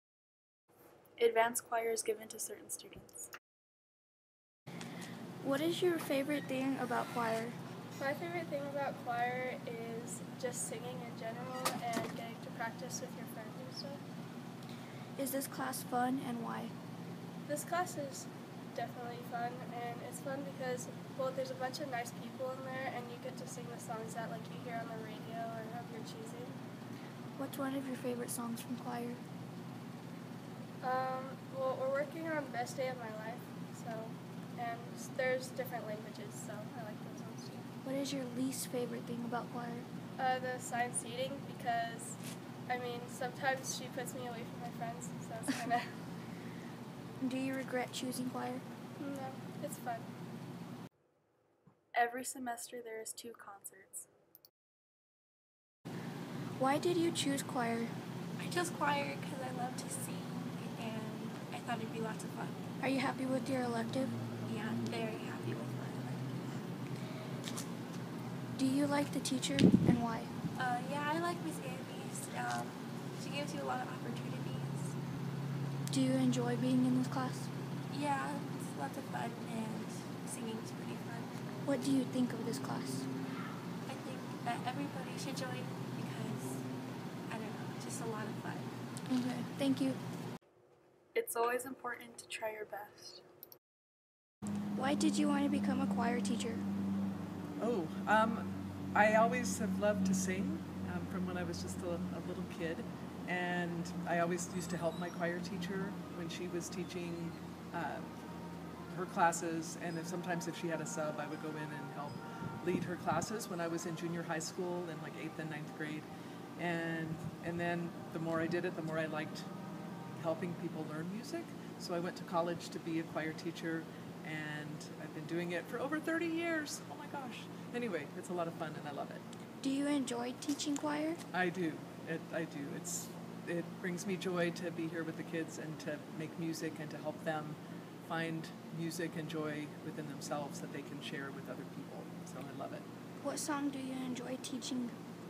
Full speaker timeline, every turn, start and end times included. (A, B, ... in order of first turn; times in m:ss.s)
0:01.2-0:03.3 A
0:05.4-0:07.6 B
0:08.0-0:14.0 C
0:15.2-0:16.7 B
0:17.4-0:26.6 C
0:27.4-0:29.2 B
0:30.8-0:37.7 C
0:37.8-0:39.9 B
0:40.2-0:45.9 C
0:47.2-0:48.6 B
0:49.0-0:50.1 C
0:51.9-0:54.1 A
0:56.6-0:57.9 B
0:58.4-1:02.6 D
1:02.8-1:04.1 B
1:04.5-1:06.6 D
1:08.6-1:10.3 B
1:10.6-1:15.0 D
1:15.9-1:17.5 B
1:17.9-1:21.4 D
1:21.6-1:23.1 B
1:23.9-1:26.6 D
1:27.3-1:28.7 D
1:29.1-1:30.0 B
1:31.1-1:33.2 A
1:34.8-1:36.6 B
1:37.6-1:48.1 E
1:48.9-1:59.5 E
2:00.2-2:09.2 E
2:09.6-2:11.2 B
2:11.3-2:22.8 E
2:23.2-2:24.9 B